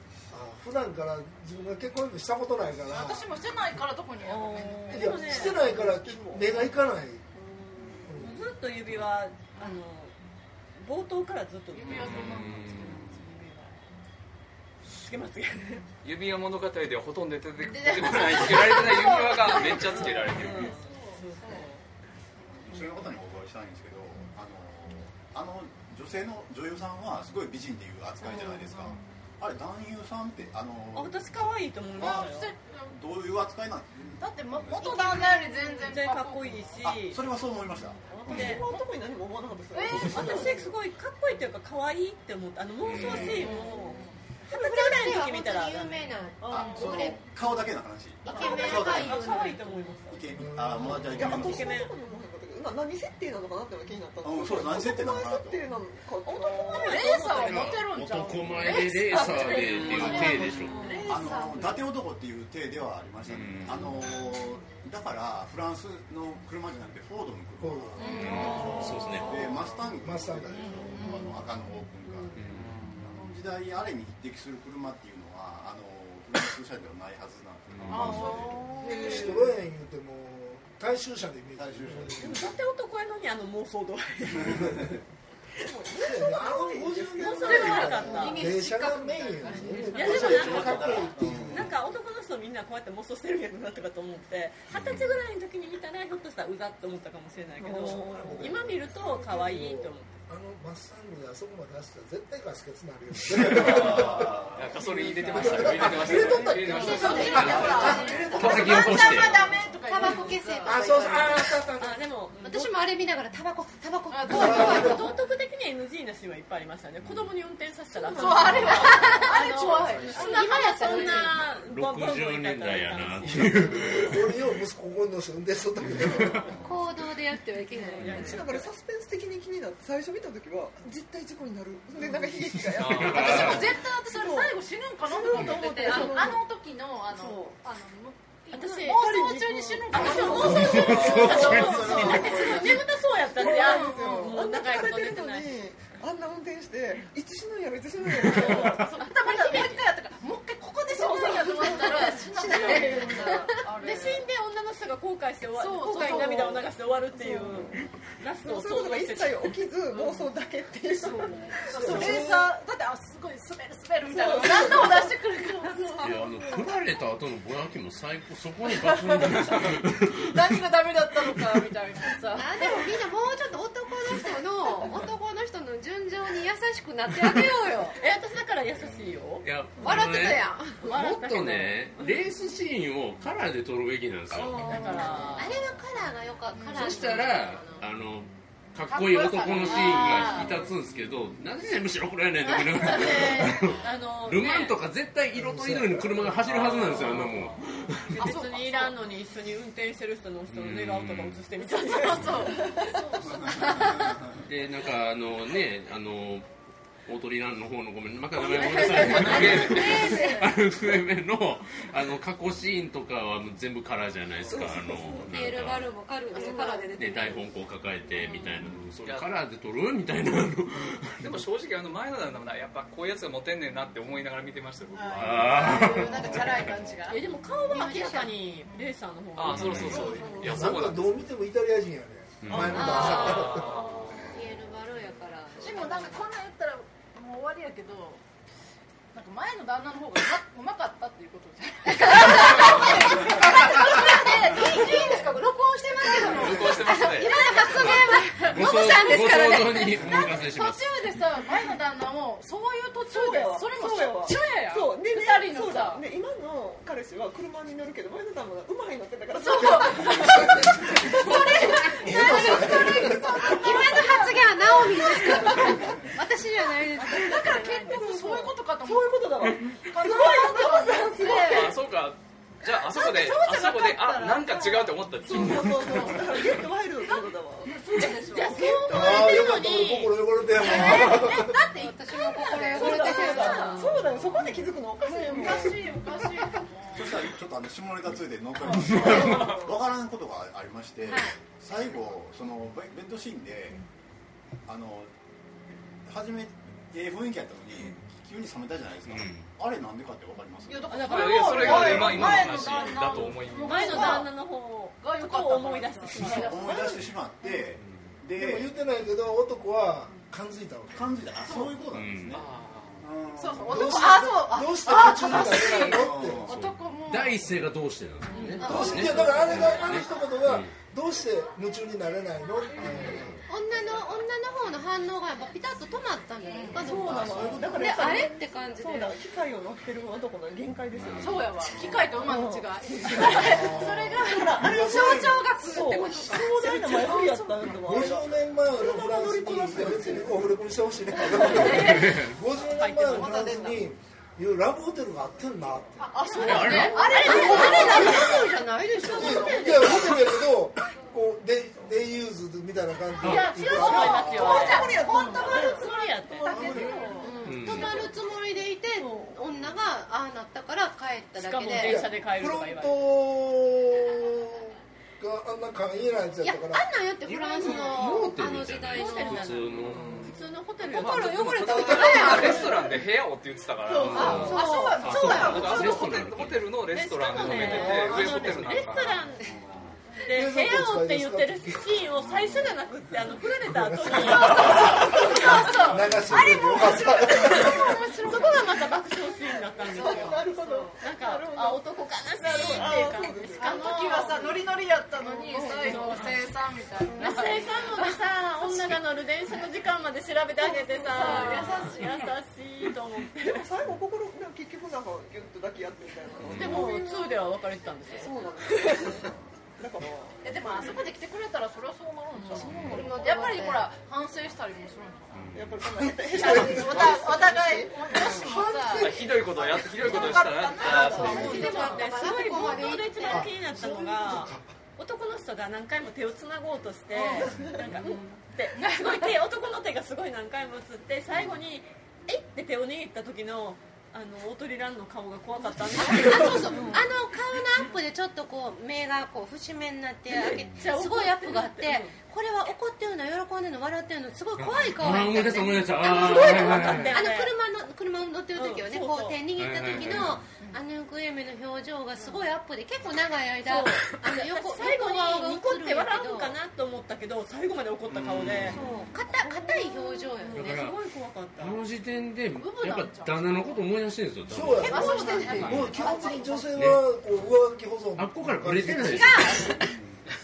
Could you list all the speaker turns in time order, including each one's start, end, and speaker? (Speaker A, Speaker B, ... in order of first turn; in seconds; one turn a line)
Speaker A: 0.3-3.4
Speaker B: 2.9-5.3
Speaker C: 4.2-6.7
Speaker D: 4.9-5.7
Speaker A: 4.9-7.2
Speaker C: 7.4-8.1
Speaker A: 8.1-8.5
Speaker D: 8.2-10.2
Speaker D: 10.8-13.8
Speaker B: 11.7-13.4
Speaker E: 11.9-13.2
Speaker D: 14.9-15.8
Speaker F: 16.0-20.8
Speaker B: 17.6-21.7
Speaker D: 19.5-21.8
Speaker G: 22.4-32.3
Speaker B: 28.2-29.0
Speaker D: 30.9-32.5
Speaker B: 32.0-33.0
Speaker G: 32.9-35.0
Speaker B: 34.2-36.8
Speaker D: 35.8-37.2
Speaker G: 36.8-38.6
Speaker B: 38.2-39.0
Speaker C: 38.2-40.7
Speaker D: 38.2-38.6
Speaker B: 39.7-40.7
Speaker D: 40.1-46.1
Speaker E: 42.8-43.4
Speaker B: 43.0-44.2
Speaker C: 43.4-43.7
Speaker H: 44.5-47.2
Speaker C: 46.4-46.9
Speaker G: 46.5-49.4
Speaker B: 46.5-47.0
Speaker H: 48.2-49.6
Speaker C: 48.3-48.7
Speaker D: 48.3-50.2
Speaker B: 48.4-48.8
Speaker G: 50.1-51.8
Speaker A: 50.4-51.5
Speaker C: 50.9-57.3
Speaker D: 51.1-51.9
Speaker G: 54.2-55.7
Speaker D: 56.4-57.8
Speaker B: 56.5-61.8
Speaker E: 57.4-60.8
Speaker D: 58.6-61.1
Speaker C: 60.9-61.6
Speaker G: 61.1-78.8
Speaker E: 63.3-63.8
Speaker A: 67.6-68.7
Speaker B: 68.0-69.7
Speaker E: 68.2-69.4
Speaker A: 69.8-71.2
Speaker B: 70.6-71.4
Speaker E: 72.4-72.8
Speaker B: 73.2-73.5
Speaker E: 77.7-78.4
Speaker B: 77.9-79.4
Speaker C: 78.8-79.3
Speaker A: 78.9-82.4
Speaker G: 81.6-82.5
Speaker D: 82.2-84.9
Speaker A: 84.5-84.9
Speaker C: 85.6-88.1
Speaker A: 85.9-91.8
Speaker D: 87.2-88.5
Speaker B: 87.4-90.8
Speaker D: 89.9-100.2
Speaker G: 90.0-91.7
Speaker E: 94.7-95.2
Speaker C: 97.6-98.6
Speaker A: 97.9-104.5
Speaker G: 103.4-104.8
Speaker F: 103.6-107.8
Speaker D: 104.9-107.3
Speaker A: 105.0-108.9
Speaker B: 106.5-111.1
Speaker H: 106.7-111.6
Speaker E: 107.4-107.7
Speaker E: 108.3-109.5
Speaker A: 110.6-112.1
Speaker D: 111.8-112.7
Speaker H: 112.4-115.2
Speaker B: 114.1-115.2
Speaker A: 114.3-115.1
Speaker D: 114.3-123.9
Speaker E: 117.0-117.3
Speaker B: 118.0-121.4
Speaker C: 118.1-119.0
Speaker H: 118.6-121.4
Speaker E: 121.5-124.3
Speaker A: 123.8-126.5
Speaker E: 126.0-126.5
Speaker G: 126.3-126.7
Speaker H: 126.6-128.7
Speaker D: 127.8-128.6
Speaker C: 128.0-134.4
Speaker E: 132.7-133.8
Speaker F: 132.8-133.6
Speaker B: 133.0-142.8
Speaker C: 135.0-136.4
Speaker D: 135.8-136.1
Speaker C: 137.1-137.6
Speaker D: 138.5-145.6
Speaker C: 138.9-142.8
Speaker E: 140.6-141.7
Speaker C: 143.4-149.0
Speaker B: 143.4-144.4
Speaker B: 148.2-154.3
Speaker D: 148.3-149.8
Speaker C: 151.0-153.2
Speaker H: 151.6-153.5
Speaker D: 152.5-159.5
Speaker B: 155.6-156.7
Speaker C: 157.1-157.9
Speaker C: 158.4-162.4
Speaker B: 159.9-160.3
Speaker B: 161.0-166.4
Speaker A: 161.7-162.5
Speaker C: 164.1-165.2
Speaker C: 165.7-166.5
Speaker E: 166.0-170.6
Speaker B: 168.7-173.0
Speaker E: 171.2-171.7
Speaker H: 172.3-178.0
Speaker D: 178.0-179.4
Speaker E: 178.8-185.2
Speaker H: 179.8-180.8
Speaker D: 180.8-182.2
Speaker B: 184.6-184.9
Speaker D: 184.6-185.6
Speaker H: 185.3-187.8
Speaker B: 186.5-187.3
Speaker E: 186.7-198.4
Speaker B: 188.8-190.7
Speaker D: 189.6-190.4
Speaker B: 192.4-193.7
Speaker D: 192.8-194.8
Speaker A: 195.3-196.4
Speaker B: 196.5-197.6
Speaker D: 198.1-202.7
Speaker B: 198.2-199.0
Speaker E: 200.5-201.4
Speaker B: 201.8-204.1
Speaker D: 203.7-203.9
Speaker E: 204.4-206.5
Speaker E: 207.1-215.9
Speaker B: 208.4-210.4
Speaker F: 209.2-210.0
Speaker H: 209.5-210.3
Speaker C: 214.4-215.5
Speaker H: 215.2-217.5
Speaker B: 216.3-216.9
Speaker C: 216.3-216.8
Speaker E: 217.0-221.4
Speaker F: 219.0-219.3
Speaker F: 221.2-225.9
Speaker B: 224.9-228.9
Speaker E: 225.2-226.7
Speaker D: 227.1-230.4
Speaker H: 227.7-228.3
Speaker F: 229.4-231.2
Speaker E: 229.5-230.1
Speaker B: 229.7-230.7
Speaker A: 230.4-233.7
Speaker E: 232.4-233.2
Speaker C: 232.5-233.6
Speaker H: 232.6-236.2
Speaker F: 233.1-234.3
Speaker B: 235.6-238.2
Speaker B: 239.1-256.1
Speaker H: 242.0-250.4
Speaker F: 246.2-247.4
Speaker E: 247.7-250.9
Speaker C: 253.1-261.9
Speaker B: 259.4-266.1
Speaker H: 259.7-260.4
Speaker H: 261.0-267.8
Speaker A: 262.0-263.5
Speaker B: 266.9-271.8
Speaker C: 267.1-271.7
Speaker F: 271.4-276.2
Speaker B: 272.7-279.3
Speaker C: 275.3-279.2
Speaker D: 278.3-280.2
Speaker A: 278.9-281.6
Speaker B: 280.5-287.3
Speaker H: 280.6-284.1
Speaker C: 282.6-286.6
Speaker G: 286.9-293.8
Speaker B: 288.7-289.6
Speaker C: 289.0-289.7
Speaker H: 291.1-291.4
Speaker G: 294.7-295.1
Speaker G: 296.1-302.0
Speaker E: 299.1-299.5
Speaker B: 300.7-304.4
Speaker F: 300.9-304.3
Speaker E: 301.9-302.5
Speaker D: 303.6-306.6
Speaker B: 305.0-307.0
Speaker G: 306.2-308.7
Speaker E: 307.8-308.2
Speaker A: 308.4-311.2
Speaker G: 310.9-312.5
Speaker B: 311.4-311.9
Speaker E: 311.9-312.4
Speaker F: 312.3-313.1
Speaker G: 313.0-314.2
Speaker B: 313.4-317.6
Speaker A: 313.7-316.5
Speaker G: 315.2-316.8
Speaker E: 317.1-320.7
Speaker D: 318.3-318.6
Speaker B: 318.4-319.0
Speaker H: 318.6-319.5
Speaker A: 318.6-323.4
Speaker E: 323.1-323.4
Speaker H: 323.5-329.2
Speaker B: 326.4-326.9
Speaker C: 326.7-340.5
Speaker G: 326.9-327.9
Speaker E: 331.0-331.4
Speaker G: 331.0-332.2
Speaker B: 331.2-338.0
Speaker A: 333.4-335.7
Speaker H: 335.8-336.3
Speaker D: 336.7-337.4
Speaker A: 337.8-346.2
Speaker C: 341.1-341.8
Speaker B: 341.3-342.3
Speaker E: 341.9-342.4
Speaker D: 342.6-343.8
Speaker B: 343.1-343.8
Speaker B: 346.0-350.1
Speaker C: 346.2-348.3
Speaker E: 346.4-347.1
Speaker D: 346.4-348.2
Speaker H: 346.8-350.1
Speaker A: 347.6-348.4
Speaker A: 349.1-354.3
Speaker B: 353.2-358.2
Speaker D: 353.2-356.5
Speaker C: 353.8-357.3
Speaker H: 357.2-362.1
Speaker E: 357.4-358.0
Speaker B: 359.0-359.4
Speaker D: 361.4-363.1
Speaker A: 361.7-366.9
Speaker H: 366.4-369.6
Speaker E: 367.2-370.3
Speaker D: 367.6-368.1
Speaker D: 368.9-372.3
Speaker F: 369.9-370.3
Speaker H: 370.9-373.0
Speaker F: 370.9-379.2
Speaker B: 371.7-373.0
Speaker B: 373.9-376.2
Speaker E: 374.0-376.8
Speaker H: 374.1-375.9
Speaker D: 376.9-379.5
Speaker B: 377.5-378.7
Speaker G: 379.4-380.0
Speaker D: 380.2-385.8
Speaker A: 380.3-382.0
Speaker G: 382.1-382.8
Speaker A: 383.5-388.0
Speaker B: 384.1-389.0
Speaker D: 388.2-390.5
Speaker B: 389.8-391.0
Speaker C: 389.9-391.8
Speaker D: 391.0-394.3
Speaker C: 392.4-394.7
Speaker B: 393.6-399.0
Speaker C: 395.2-396.4
Speaker D: 395.8-396.3
Speaker C: 397.1-397.5
Speaker D: 397.2-403.8
Speaker B: 400.6-402.3
Speaker C: 401.1-401.9
Speaker C: 403.4-407.5
Speaker E: 406.4-406.9
Speaker D: 406.5-409.2
Speaker C: 408.2-411.0
Speaker B: 410.4-415.5
Speaker C: 412.4-413.7
Speaker H: 412.9-413.9
Speaker E: 415.3-415.7
Speaker C: 415.5-419.1
Speaker B: 416.3-422.3
Speaker F: 419.0-421.5
Speaker C: 420.1-420.3
Speaker C: 420.9-421.6
Speaker H: 421.0-423.5
Speaker D: 421.1-437.0
Speaker A: 423.2-424.6
Speaker B: 427.1-427.5
Speaker C: 427.3-428.2
Speaker B: 428.8-429.3
Speaker H: 436.0-456.6
Speaker E: 440.4-440.8
Speaker D: 440.5-442.1
Speaker E: 444.6-447.2
Speaker D: 446.0-447.5
Speaker D: 448.6-449.4
Speaker E: 449.6-450.5
Speaker D: 453.6-458.8
Speaker E: 458.1-458.9
Speaker H: 458.7-460.9
Speaker D: 459.4-461.8
Speaker E: 460.5-461.0
Speaker E: 461.6-465.9
Speaker B: 462.5-463.9
Speaker A: 464.5-469.4
Speaker B: 464.8-466.8
Speaker H: 464.9-466.3
Speaker E: 466.7-467.1
Speaker E: 468.2-469.7
Speaker H: 469.1-469.9
Speaker G: 469.9-470.2